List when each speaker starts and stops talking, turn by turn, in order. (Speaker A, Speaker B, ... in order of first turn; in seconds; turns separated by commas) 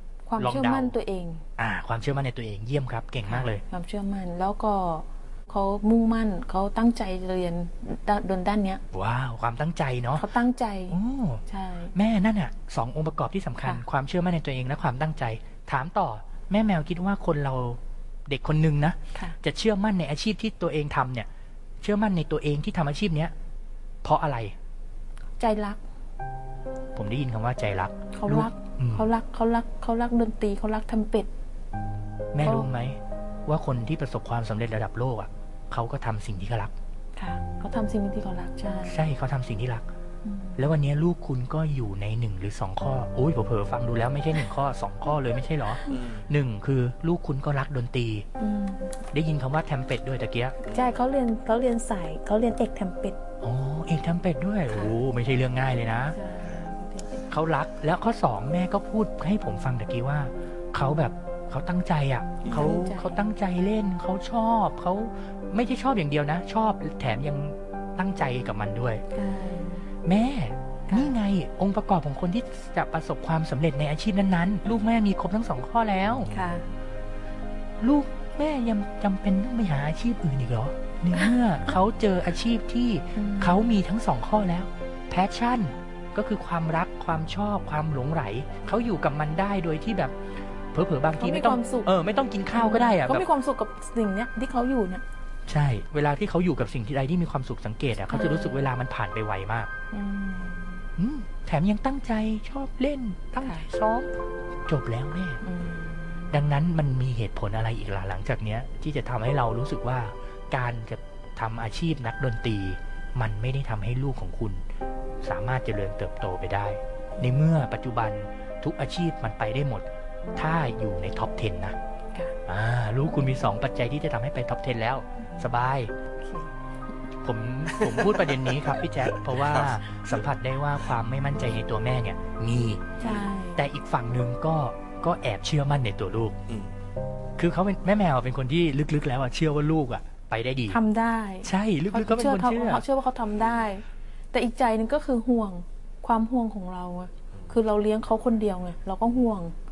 Speaker A: 0.3-1.4, Speaker B: 0.4-0.9, Speaker B: 1.6-3.6, Speaker A: 3.2-8.8, Speaker B: 8.9-10.2, Speaker A: 10.2-11.9, Speaker B: 10.9-11.4, Speaker B: 11.9-21.3, Speaker B: 21.8-23.3, Speaker B: 24.0-24.6, Speaker A: 25.4-25.8, Speaker B: 26.9-29.1, Speaker A: 28.1-31.3, Speaker B: 32.3-36.7, Speaker A: 32.4-32.7, Speaker A: 37.2-39.0, Speaker B: 38.9-39.9, Speaker A: 40.2-40.7, Speaker B: 40.6-48.3, Speaker C: 45.9-46.3, Speaker A: 48.4-48.9, Speaker B: 49.1-50.6, Speaker C: 50.6-50.9, Speaker A: 50.7-53.2, Speaker B: 53.4-56.2, Speaker A: 54.7-55.0, Speaker A: 56.1-57.3, Speaker B: 57.3-69.0, Speaker C: 62.4-62.7, Speaker A: 62.5-63.3, Speaker A: 69.1-69.9, Speaker B: 70.0-76.3, Speaker A: 70.9-71.2, Speaker A: 76.3-76.7, Speaker B: 77.8-90.2, Speaker A: 83.2-83.8, Speaker B: 90.7-93.2, Speaker A: 91.2-91.9, Speaker A: 92.5-95.0, Speaker B: 95.5-99.7, Speaker A: 98.1-98.6, Speaker A: 99.9-100.9, Speaker B: 101.0-104.1, Speaker A: 103.4-103.7, Speaker B: 104.7-105.4, Speaker A: 105.4-106.3, Speaker B: 106.3-114.6, Speaker B: 115.2-121.8, Speaker B: 122.5-125.9, Speaker A: 123.1-123.4, Speaker A: 125.2-125.5, Speaker A: 126.2-126.5, Speaker B: 127.2-132.9, Speaker C: 127.7-130.2, Speaker A: 133.0-133.6, Speaker B: 133.6-136.4, Speaker C: 136.5-136.7, Speaker B: 137.4-140.8, Speaker A: 140.7-149.5, Speaker B: 141.4-142.8